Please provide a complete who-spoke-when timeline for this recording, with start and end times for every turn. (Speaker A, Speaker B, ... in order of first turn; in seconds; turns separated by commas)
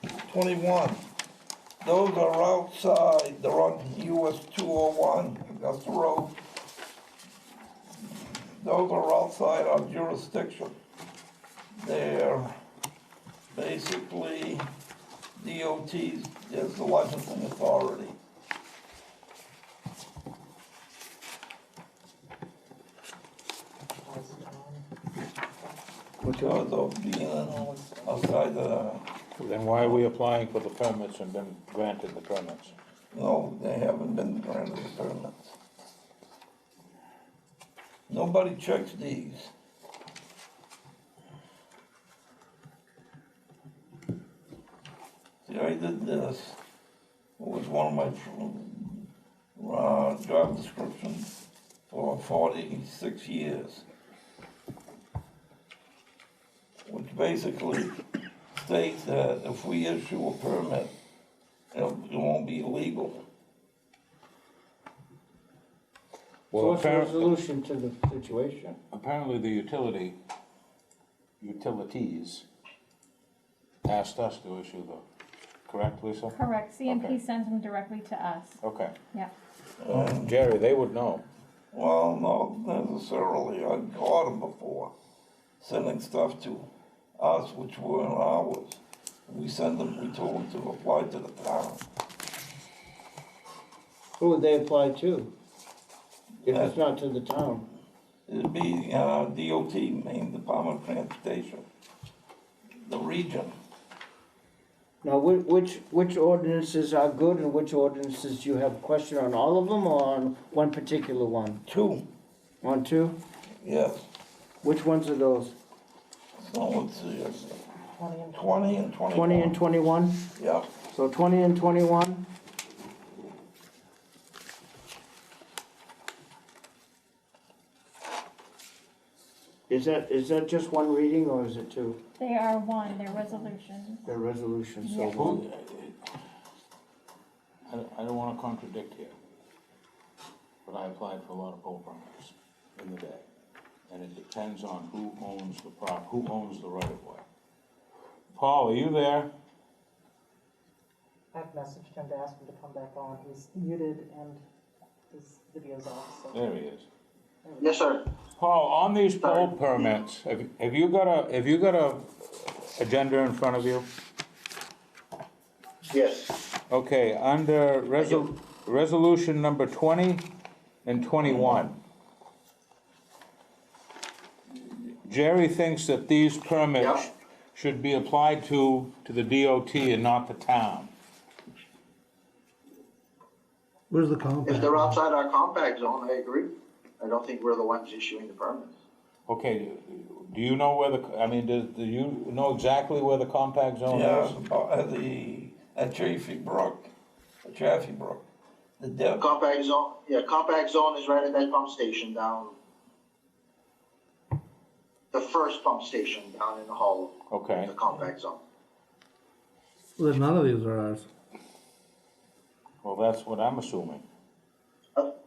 Speaker A: 0.3-1.0, Speaker A: 1.8-6.4, Speaker A: 8.6-10.8, Speaker A: 11.8-12.6, Speaker A: 13.5-14.7, Speaker A: 15.4-18.2, Speaker B: 24.1-24.8, Speaker C: 26.2-26.7, Speaker A: 26.4-29.1, Speaker B: 27.4-28.3, Speaker D: 29.4-32.7, Speaker A: 29.8-30.1, Speaker A: 33.1-35.6, Speaker A: 38.1-39.5, Speaker A: 45.5-46.6, Speaker A: 47.4-49.1, Speaker A: 49.6-51.3, Speaker A: 51.9-53.9, Speaker A: 56.9-58.0, Speaker A: 58.6-60.9, Speaker A: 61.7-63.2, Speaker D: 66.5-67.3, Speaker C: 66.5-68.8, Speaker D: 68.9-70.2, Speaker D: 71.4-72.4, Speaker D: 73.8-75.0, Speaker D: 75.7-76.3, Speaker E: 76.3-78.6, Speaker D: 76.9-77.2, Speaker D: 78.6-79.0, Speaker A: 79.8-80.4, Speaker D: 79.9-81.2, Speaker A: 81.7-84.9, Speaker A: 85.6-91.8, Speaker C: 94.2-95.3, Speaker C: 96.5-97.7, Speaker A: 96.5-96.8, Speaker A: 98.3-101.6, Speaker A: 102.8-103.5, Speaker C: 105.0-111.6, Speaker A: 111.7-112.1, Speaker C: 112.6-113.2, Speaker A: 113.6-114.1, Speaker C: 114.6-115.5, Speaker A: 116.4-117.6, Speaker B: 118.0-118.8, Speaker A: 118.3-119.6, Speaker C: 119.1-120.3, Speaker A: 120.4-120.7, Speaker C: 120.9-122.3, Speaker C: 129.7-132.0, Speaker E: 132.2-134.1, Speaker C: 134.1-135.4, Speaker E: 134.8-135.3, Speaker D: 135.2-136.0, Speaker D: 137.7-139.1, Speaker D: 140.7-143.2, Speaker D: 143.9-147.2, Speaker D: 148.3-149.3, Speaker B: 151.3-154.4, Speaker B: 155.1-156.5, Speaker D: 156.3-156.9, Speaker B: 157.4-158.0, Speaker F: 157.6-158.1, Speaker D: 158.3-163.9, Speaker F: 159.2-159.9, Speaker F: 165.9-166.4, Speaker D: 166.7-170.3, Speaker F: 168.0-168.3, Speaker D: 170.8-171.8, Speaker A: 171.2-171.7, Speaker D: 175.1-180.9, Speaker F: 176.8-177.1, Speaker G: 183.9-185.0, Speaker F: 184.5-188.7, Speaker D: 189.3-194.4, Speaker A: 193.9-196.9, Speaker A: 197.4-198.2, Speaker A: 198.8-199.3, Speaker F: 199.2-202.6, Speaker F: 205.1-208.4, Speaker D: 207.3-207.8, Speaker G: 210.0-211.1, Speaker D: 212.8-214.0